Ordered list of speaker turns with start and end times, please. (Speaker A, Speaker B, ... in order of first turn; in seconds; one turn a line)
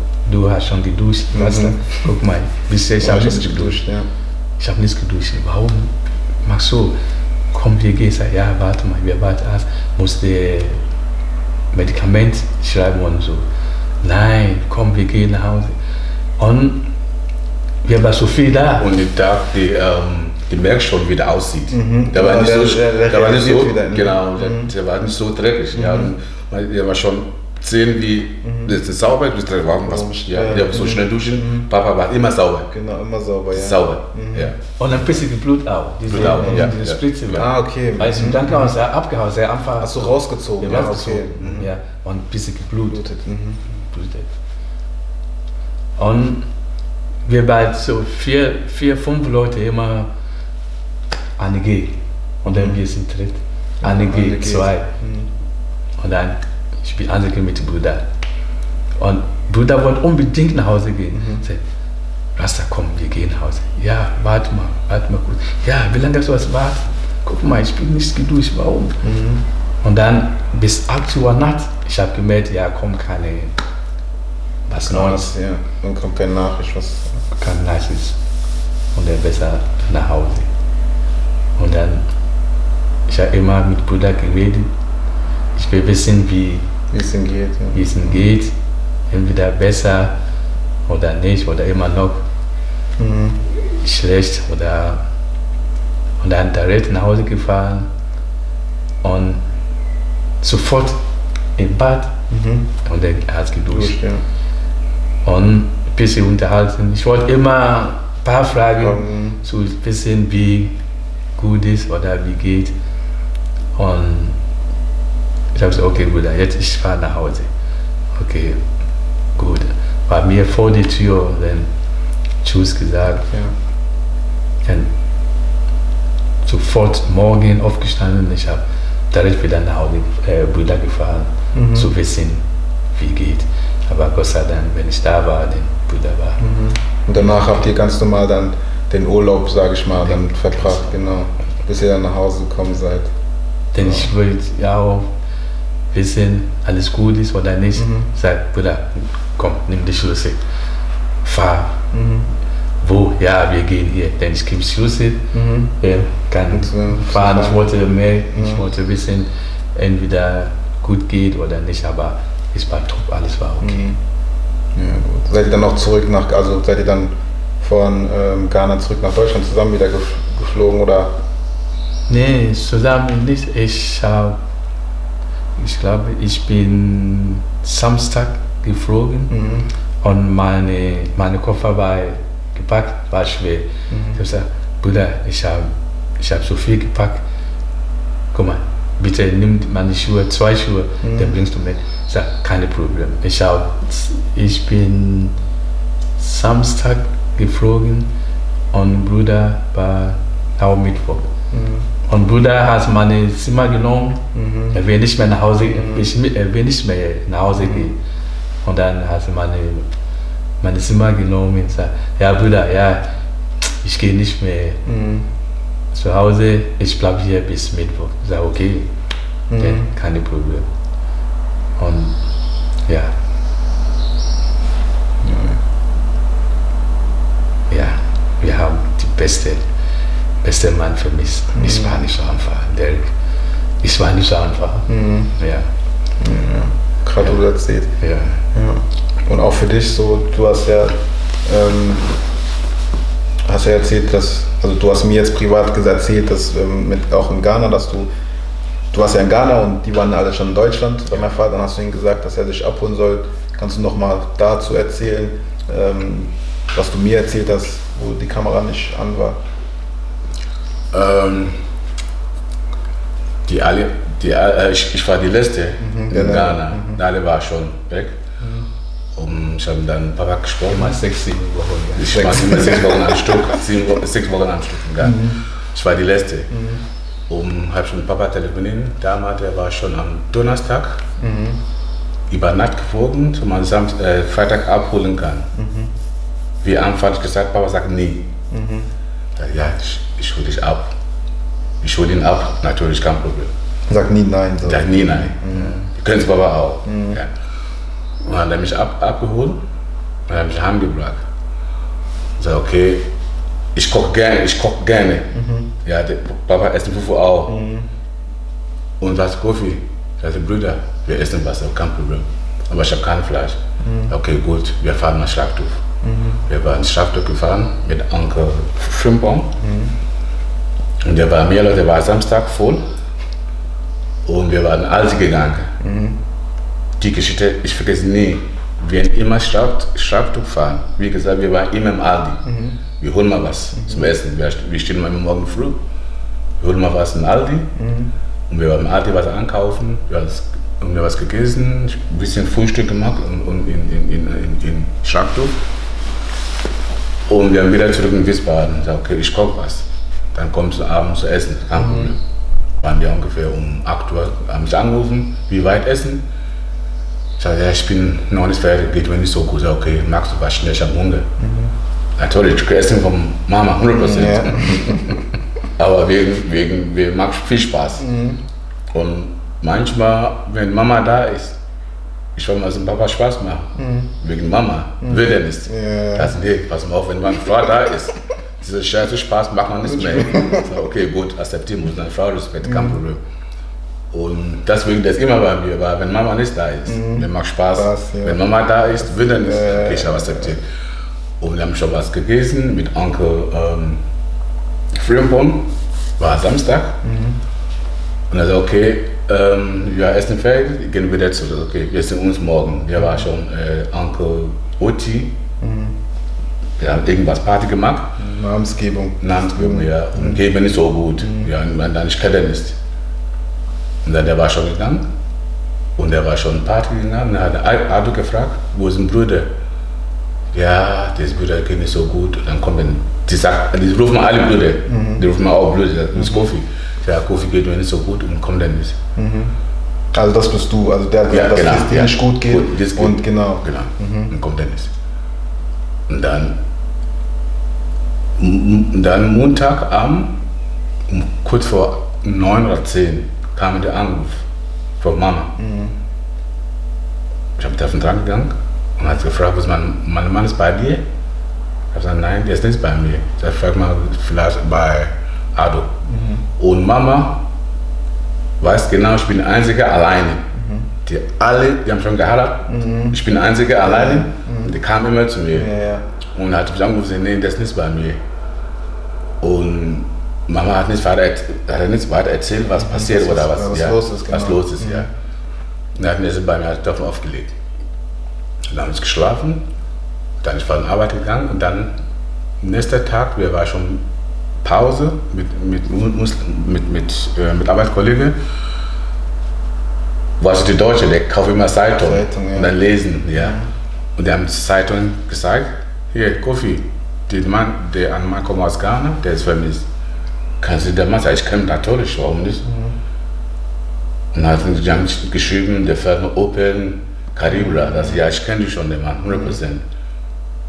Speaker A: 0.2-3.8
Speaker B: 1.3-2.1
Speaker B: 3.0-4.1
Speaker A: 4.6-5.9
Speaker A: 6.4-7.0
Speaker A: 7.5-10.8
Speaker A: 11.7-13.4
Speaker A: 14.0-15.7
Speaker A: 16.4-16.9
Speaker A: 17.8-18.9
Speaker C: 18.8-32.7
Speaker B: 21.7-24.7
Speaker B: 25.7-26.1
Speaker B: 28.4-28.7
Speaker B: 29.8-31.7
Speaker B: 32.7-34.5
Speaker C: 33.5-34.5
Speaker A: 34.8-43.0
Speaker C: 36.1-37.0
Speaker B: 36.1-38.8
Speaker B: 39.8-41.7
Speaker B: 42.9-43.6
Speaker A: 43.8-44.3
Speaker A: 46.0-46.4
Speaker A: 47.2-50.1
Speaker A: 51.4-54.9
Speaker B: 52.5-52.8
Speaker B: 53.8-55.3
Speaker A: 56.0-58.0
Speaker A: 59.0-61.6
Speaker B: 61.1-61.4
Speaker A: 62.4-69.0
Speaker B: 69.0-69.4
Speaker A: 69.8-73.5
Speaker A: 74.7-75.3
Speaker B: 74.8-77.2
Speaker A: 77.3-78.2
Speaker A: 78.9-80.5
Speaker A: 81.6-82.0
Speaker A: 83.1-84.7
Speaker A: 85.5-86.7
Speaker B: 86.9-88.2
Speaker A: 87.7-88.5
Speaker A: 89.1-90.1
Speaker A: 90.8-92.2
Speaker B: 93.0-93.4
Speaker A: 93.6-95.0
Speaker A: 96.2-97.9
Speaker A: 99.0-99.4
Speaker A: 100.4-101.0
Speaker A: 101.5-102.2
Speaker B: 102.3-102.7
Speaker A: 102.8-104.0
Speaker B: 103.7-104.2
Speaker A: 105.2-110.8
Speaker B: 108.8-109.4
Speaker A: 111.3-112.7
Speaker A: 113.7-114.4
Speaker A: 115.5-117.5
Speaker A: 118.1-118.6
Speaker A: 119.3-121.7
Speaker A: 122.4-123.3
Speaker A: 124.6-124.9
Speaker A: 126.4-132.4
Speaker B: 131.5-131.9
Speaker A: 132.9-136.4
Speaker B: 136.4-143.1
Speaker A: 137.1-137.7
Speaker A: 140.0-140.9
Speaker A: 143.7-145.1
Speaker B: 143.8-144.1
Speaker A: 145.9-150.4
Speaker B: 147.8-148.1
Speaker A: 151.2-151.8
Speaker B: 151.9-152.3
Speaker A: 152.8-163.9
Speaker B: 155.3-155.7
Speaker B: 156.5-157.7
Speaker B: 158.3-158.6
Speaker B: 163.6-163.9
Speaker B: 164.7-171.1
Speaker A: 172.1-174.4
Speaker A: 175.6-179.3
Speaker B: 179.3-179.7
Speaker A: 180.0-187.2
Speaker B: 183.9-184.2
Speaker A: 188.3-195.3
Speaker B: 191.0-191.3
Speaker A: 196.2-198.1
Speaker A: 198.7-201.3
Speaker B: 201.5-201.9
Speaker A: 202.1-208.0
Speaker B: 204.3-204.8
Speaker B: 205.7-206.1
Speaker B: 207.5-207.9
Speaker A: 208.6-209.9
Speaker A: 210.6-213.1
Speaker A: 213.6-214.8
Speaker B: 214.8-215.3
Speaker A: 215.9-218.9
Speaker B: 219.5-219.9
Speaker A: 219.6-220.7
Speaker A: 221.8-222.2
Speaker A: 222.8-223.1
Speaker B: 225.2-225.6
Speaker A: 227.7-229.6
Speaker A: 230.4-233.1
Speaker B: 231.6-231.9
Speaker A: 233.8-235.7
Speaker B: 234.9-235.3
Speaker B: 236.2-237.9
Speaker A: 238.0-238.4
Speaker B: 238.5-242.1
Speaker B: 243.4-248.1
Speaker B: 248.9-259.4
Speaker C: 260.9-261.6
Speaker C: 263.4-268.1
Speaker B: 265.8-267.0
Speaker B: 268.4-268.6
Speaker C: 269.1-271.0
Speaker A: 270.7-272.6
Speaker C: 271.9-276.5
Speaker B: 272.1-273.6
Speaker B: 275.0-275.4
Speaker B: 276.5-276.8
Speaker C: 277.3-281.0
Speaker B: 281.2-281.6
Speaker C: 282.3-285.5
Speaker B: 285.6-285.9
Speaker C: 286.6-288.3
Speaker B: 288.5-288.9
Speaker C: 289.4-290.9
Speaker C: 291.8-293.5
Speaker B: 293.9-295.9
Speaker C: 294.6-297.3
Speaker B: 296.8-297.2
Speaker C: 298.2-299.6
Speaker C: 300.3-301.2
Speaker C: 302.4-303.1
Speaker C: 303.7-305.3
Speaker B: 305.3-305.7
Speaker C: 305.8-307.6
Speaker B: 307.5-307.9
Speaker C: 309.0-315.8
Speaker B: 313.8-314.1
Speaker B: 316.0-316.4
Speaker C: 316.5-319.5
Speaker B: 319.6-319.9
Speaker C: 321.0-322.8
Speaker C: 324.2-325.7
Speaker B: 325.8-326.2
Speaker C: 327.0-332.4
Speaker B: 332.4-332.8
Speaker C: 333.0-335.8
Speaker B: 333.7-334.1
Speaker C: 336.6-337.7
Speaker B: 337.8-338.1
Speaker C: 338.5-345.6
Speaker C: 347.3-352.2
Speaker B: 351.8-352.1
Speaker C: 352.8-356.2
Speaker C: 357.4-361.3
Speaker B: 361.4-361.7
Speaker C: 362.2-365.2
Speaker B: 363.9-365.2
Speaker C: 365.8-368.0
Speaker B: 368.0-368.4
Speaker C: 368.9-371.6
Speaker C: 372.3-383.2
Speaker B: 373.8-374.1
Speaker B: 375.0-376.4
Speaker B: 379.8-380.8
Speaker B: 382.6-383.0
Speaker C: 384.1-390.6
Speaker B: 386.9-388.4
Speaker B: 389.0-390.5
Speaker C: 391.4-394.0
Speaker C: 394.9-397.0
Speaker B: 397.0-397.4
Speaker C: 398.3-405.4
Speaker B: 405.6-405.9
Speaker C: 406.8-408.1
Speaker B: 408.2-410.4
Speaker C: 409.2-412.8
Speaker B: 411.2-411.5
Speaker C: 414.0-415.1
Speaker C: 415.9-419.5
Speaker C: 420.5-429.0
Speaker B: 424.9-425.2
Speaker B: 426.1-426.5
Speaker B: 429.1-429.5
Speaker B: 430.1-434.3
Speaker C: 431.3-434.9
Speaker C: 436.1-436.6
Speaker C: 438.4-440.4
Speaker C: 441.1-444.4
Speaker C: 445.0-445.5
Speaker B: 445.6-445.9
Speaker C: 447.6-451.1
Speaker C: 451.9-455.9
Speaker B: 456.1-456.4
Speaker C: 456.6-457.4
Speaker C: 458.6-460.4
Speaker B: 460.5-460.9
Speaker C: 461.1-465.7
Speaker B: 462.7-463.2
Speaker B: 463.8-464.7
Speaker B: 465.5-466.0
Speaker C: 466.3-468.2
Speaker C: 469.4-475.1
Speaker B: 472.8-475.1
Speaker C: 475.9-477.6
Speaker C: 478.7-479.7
Speaker C: 480.4-482.0
Speaker C: 482.6-484.0
Speaker C: 484.6-488.4
Speaker C: 490.4-493.6
Speaker B: 492.0-492.7
Speaker B: 493.3-493.7
Speaker C: 494.1-499.8
Speaker C: 500.6-502.6
Speaker B: 502.6-502.9
Speaker C: 504.3-509.8
Speaker B: 507.5-508.2
Speaker B: 509.3-509.6